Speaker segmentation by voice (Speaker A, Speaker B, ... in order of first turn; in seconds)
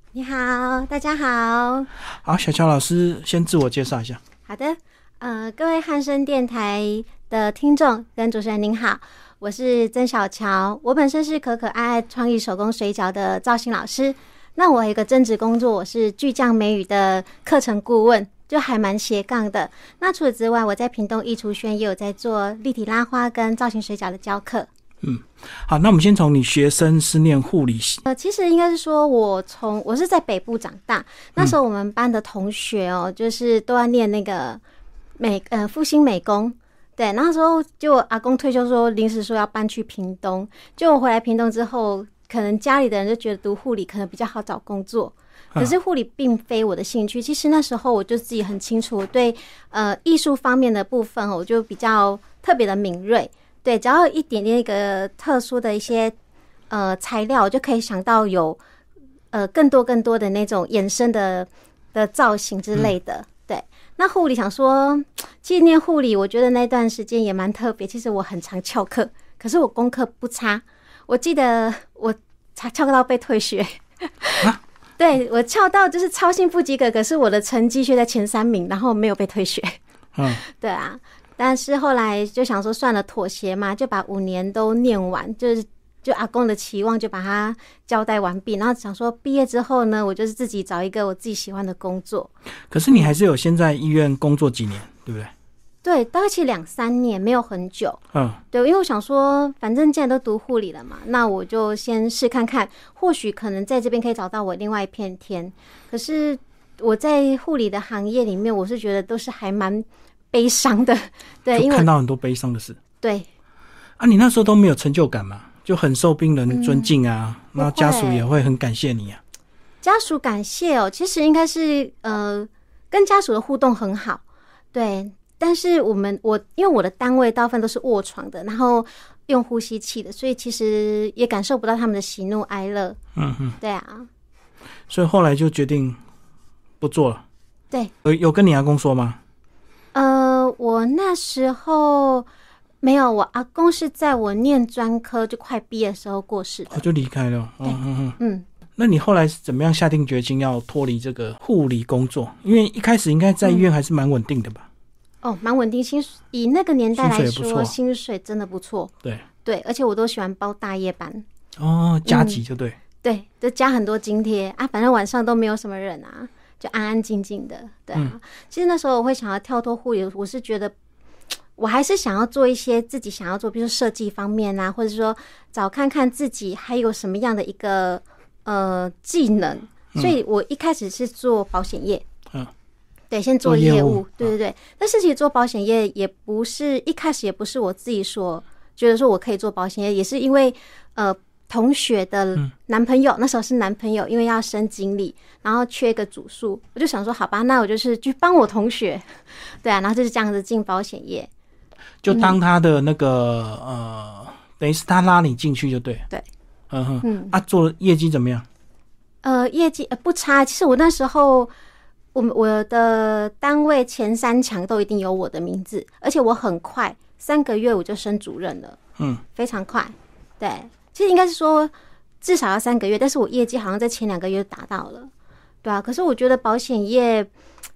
Speaker A: 0.1-1.9, 4.5-24.7, 28.0-34.6, 35.2-56.1, 56.7-58.6, 59.3-92.3, 95.8-111.9, 113.0-113.3, 116.5-116.9, 117.6-118.2, 119.8-124.2, 124.7-133.0, 133.6-134.1, 139.9-142.3, 142.8-146.8, 147.6-148.4, 155.2-158.9, 159.4-161.2, 162.1-162.4, 163.0-170.7, 171.6-182.0, 183.1-201.3, 202.1-202.4, 207.0-207.3, 209.2-211.5, 212.1-218.8, 219.3-225.1, 225.6-227.3
Speaker B: 2.1-4.2, 25.0-28.0, 80.2-80.4, 92.7-95.3, 98.1-98.4, 111.5-112.8, 114.0-119.2, 133.2-133.6, 134.9-136.0, 136.8-137.2, 138.0-139.2, 146.7-148.2, 148.8-154.7, 157.0-157.7, 161.6-162.8, 183.4-184.3, 202.0-206.1, 206.7-208.4